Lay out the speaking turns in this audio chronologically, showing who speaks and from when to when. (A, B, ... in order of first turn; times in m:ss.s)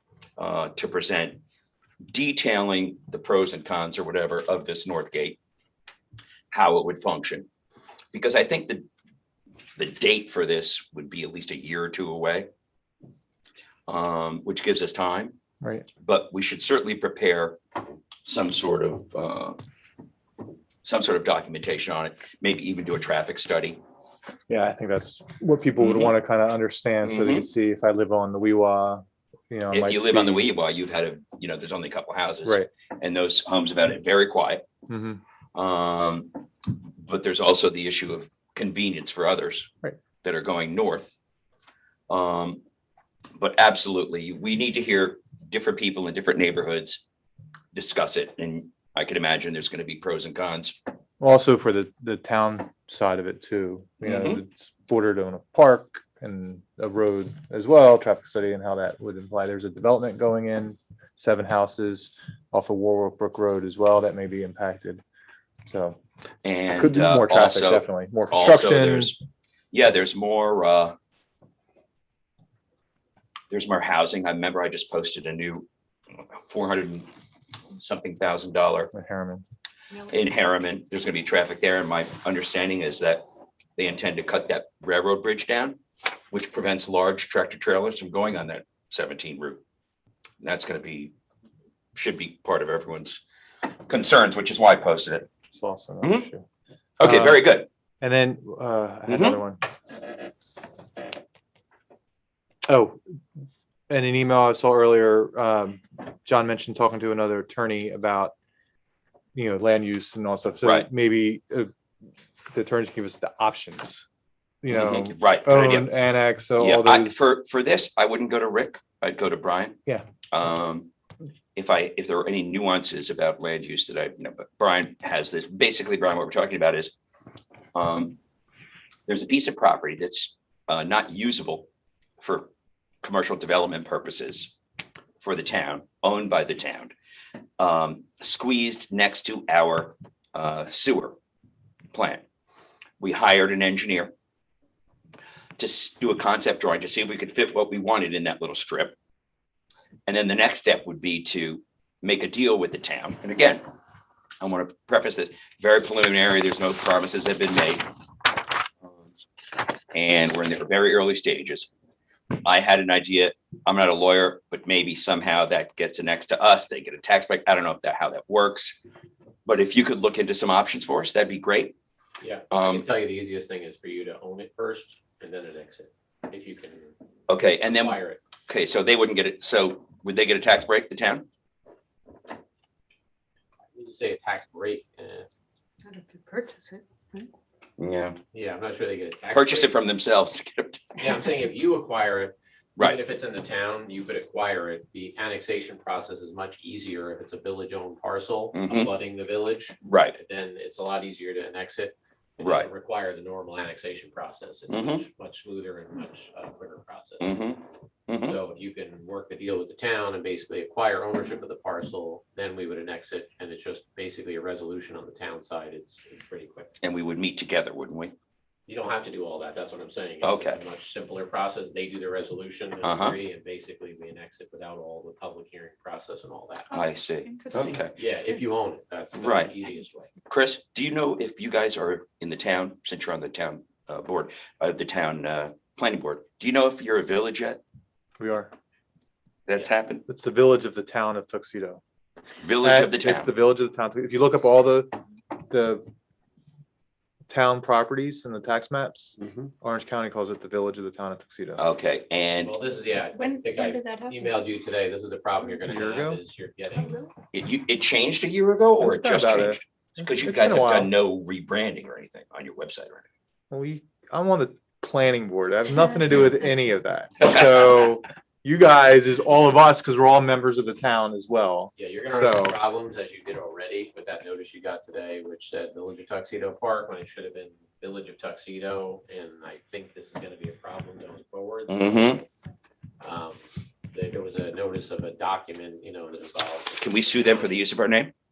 0:00.4-0:01.4 A
0:02.1-0:05.4 A
0:06.5-0:07.5 A
0:08.1-0:08.9 A
0:09.8-0:12.5 A
0:13.9-0:15.4 A
0:16.0-0:17.6 A
0:18.2-0:19.6 A
0:20.8-0:23.8 A
0:24.5-0:30.5 B
0:25.8-0:26.1 A
0:27.0-0:27.5 A
0:29.7-0:34.6 A
0:34.9-0:35.2 B
0:35.6-0:36.3 A
0:37.0-0:39.7 A
0:40.2-0:41.2 A
0:42.1-0:42.6 A
0:43.4-0:47.0 A
0:47.7-0:50.8 A
0:51.2-1:05.0 B
0:54.0-0:54.4 A
1:05.7-1:06.0 B
1:06.4-1:09.2 A
1:06.8-1:09.2 B
1:09.7-1:11.0 A
1:13.5-1:15.7 A
1:16.2-1:17.1 A
1:17.8-1:18.9 A
1:18.9-1:19.4 B
1:20.0-1:23.2 A
1:23.8-1:25.8 A
1:26.3-1:29.6 A
1:30.4-1:31.1 A
1:32.0-1:33.2 A
1:33.9-1:35.3 A
1:35.5-1:36.4 B
1:36.0-1:36.3 A
1:37.0-1:37.7 A
1:37.0-1:37.4 B
1:38.0-1:39.6 B
1:39.1-1:39.4 A
1:42.7-1:43.0 B
1:43.9-1:48.3 B
1:49.4-1:51.7 B
1:50.6-1:50.9 A
1:52.5-1:54.1 B
1:54.6-1:57.3 B
1:54.7-1:56.0 A
1:56.6-1:59.8 A
2:00.3-2:00.9 A
2:01.6-2:06.9 A
2:07.7-2:08.2 A
2:09.1-2:11.7 A
2:12.2-2:12.5 A
2:13.0-2:14.5 A
2:15.2-2:17.0 A
2:17.6-2:21.2 A
2:21.9-2:22.2 A
2:23.0-2:24.1 A
2:25.6-2:28.9 A
2:30.1-2:33.6 A
2:34.4-2:37.8 A
2:39.9-2:41.7 A
2:42.4-2:48.8 A
2:49.4-2:51.8 A
2:52.2-2:57.0 C
2:52.5-2:52.9 A
2:57.3-3:01.2 A
2:57.6-2:58.2 C
3:03.7-3:05.3 C
3:05.8-3:07.3 D
3:07.8-3:08.2 A
3:08.3-3:09.8 C
3:09.3-3:11.2 A
3:11.0-3:27.4 C
3:18.5-3:18.9 A
3:19.8-3:20.2 A
3:22.4-3:22.7 A
3:24.7-3:25.0 A
3:27.2-3:28.4 A
3:28.2-3:36.7 C
3:36.8-3:38.2 A
3:38.7-3:46.7 C
3:40.2-3:40.6 A
3:42.8-3:43.2 A
3:46.7-3:47.8 D
3:46.7-3:48.0 A
3:47.9-3:50.1 C
3:49.2-3:49.6 A
3:50.3-3:57.6 A
3:58.2-3:58.5 B
3:59.5-4:00.1 A
4:00.1-4:01.8 B
4:02.4-4:03.3 A
4:02.6-4:04.9 B
4:05.5-4:05.9 B
4:07.3-4:11.6 B
4:11.6-4:12.6 A
4:12.4-4:17.0 C
4:13.2-4:14.5 D
4:15.6-4:16.2 B
4:16.8-4:17.1 D
4:17.3-4:23.1 A
4:18.8-4:20.9 B
4:23.5-4:32.6 B
4:31.8-4:42.4 C
4:41.7-4:42.2 A
4:43.0-4:47.5 C
4:46.8-4:48.1 A